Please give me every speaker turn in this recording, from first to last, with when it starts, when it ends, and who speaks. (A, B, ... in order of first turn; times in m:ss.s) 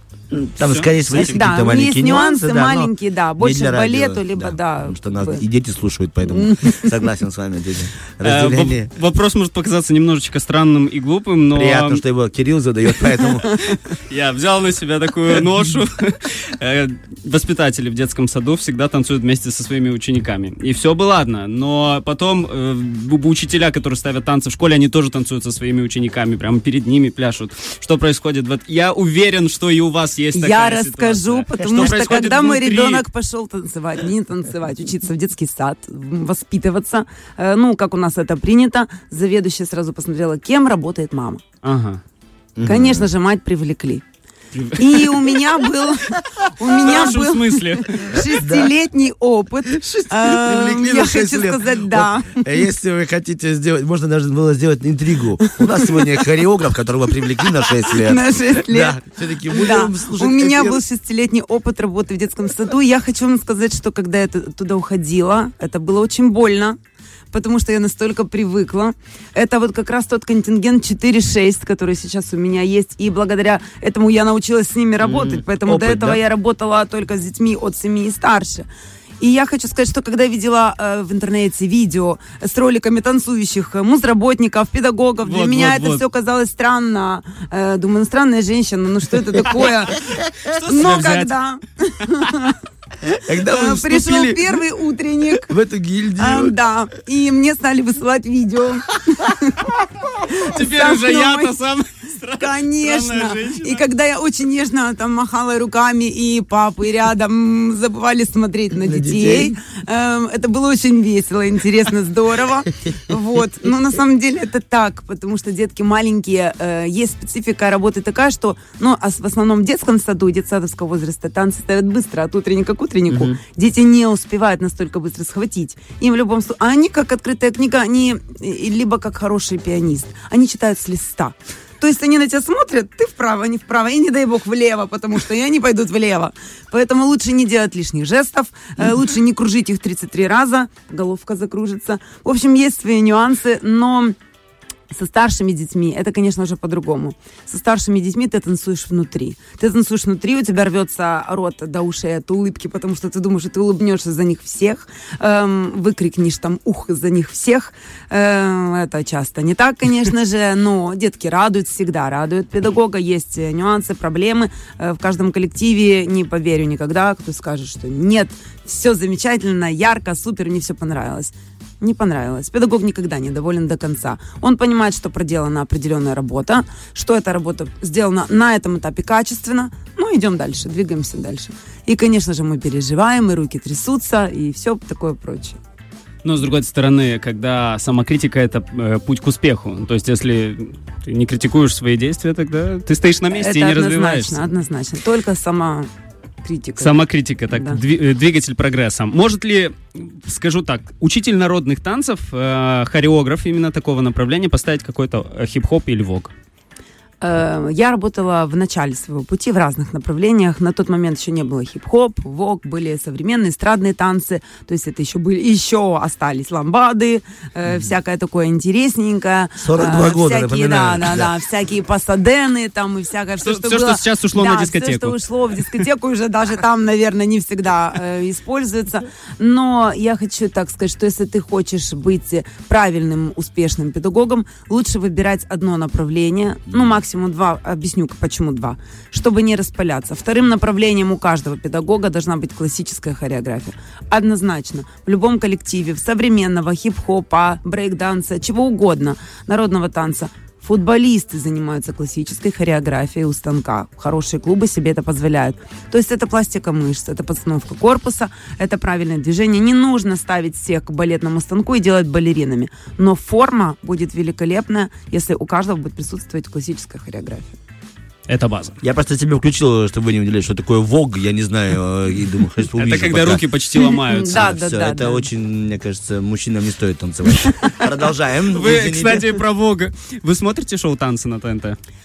0:00.3-0:08.9 A
0:00.6-0:00.9 B
0:01.1-0:05.4 C
0:06.3-0:06.9 C
0:08.2-0:12.0 B
0:11.5-0:13.6 A
0:13.5-0:33.0 B
0:30.3-0:41.4 C
0:41.6-0:42.0 B
0:42.6-0:43.1 A
0:42.6-0:44.0 C
0:44.5-0:45.4 B
0:44.8-0:52.5 C
0:46.7-0:48.0 B
0:48.1-0:48.7 A
0:49.7-1:00.8 A
0:55.4-0:56.2 C
0:57.8-1:06.8 C
1:07.3-1:18.7 C
1:15.0-1:16.2 A
1:19.2-1:32.6 C
1:25.2-1:26.0 B
1:30.4-1:31.3 B
1:33.1-1:34.6 A
1:33.4-1:35.5 C
1:35.4-1:36.6 A
1:36.2-1:41.5 C
1:40.5-1:43.8 B
1:42.4-2:24.2 C
1:48.7-1:49.5 A
2:03.1-2:03.4 A
2:24.9-3:05.6 C
3:06.2-3:14.4 B
3:13.3-3:15.9 C
3:16.4-3:17.8 C
3:16.8-3:26.3 B
3:27.2-4:27.6 C
3:39.6-3:41.3 A
3:43.4-3:45.2 B
3:56.7-3:57.0 A
4:28.3-4:28.8 B
4:28.8-4:33.4 A
4:32.8-4:34.4 B
4:33.8-4:35.3 C
4:34.3-4:39.3 A
4:37.4-4:37.7 C
4:38.5-4:41.8 B